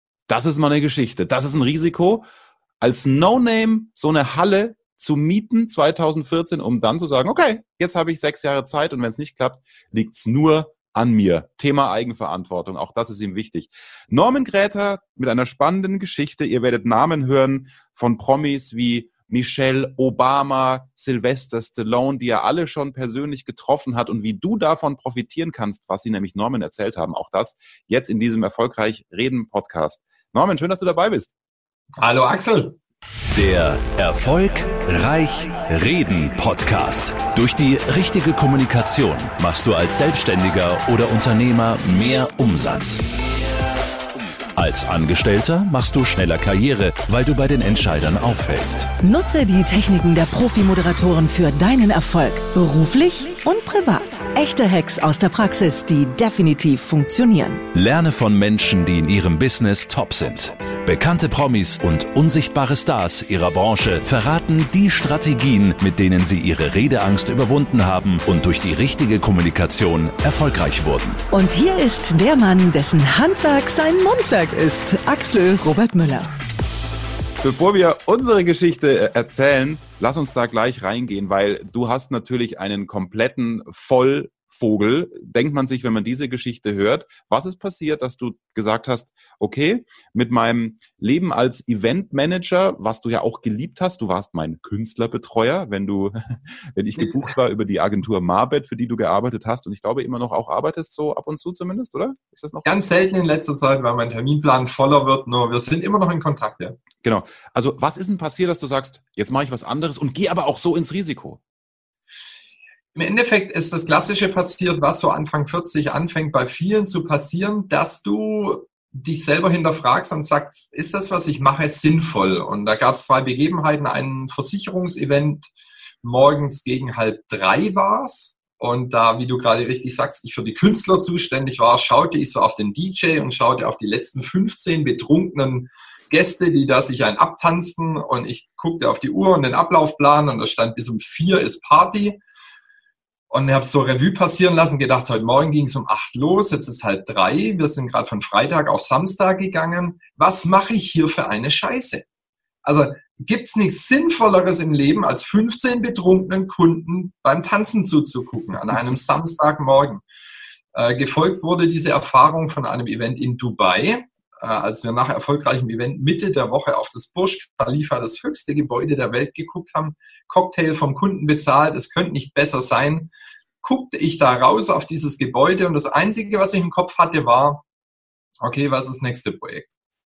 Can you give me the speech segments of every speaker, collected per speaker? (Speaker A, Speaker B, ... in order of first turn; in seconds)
Speaker A: 0.3-2.2, 2.8-31.3, 77.4-102.9, 107.0-111.4
Speaker B: 32.0-32.8, 102.6-106.8, 112.9-125.5, 126.0-142.2, 143.3-152.0, 152.6-160.0, 160.7-173.1, 173.6-177.6, 178.4-179.7
Speaker C: 33.3-43.0, 44.5-48.9, 57.7-71.2
Speaker D: 49.0-57.6, 71.3-76.3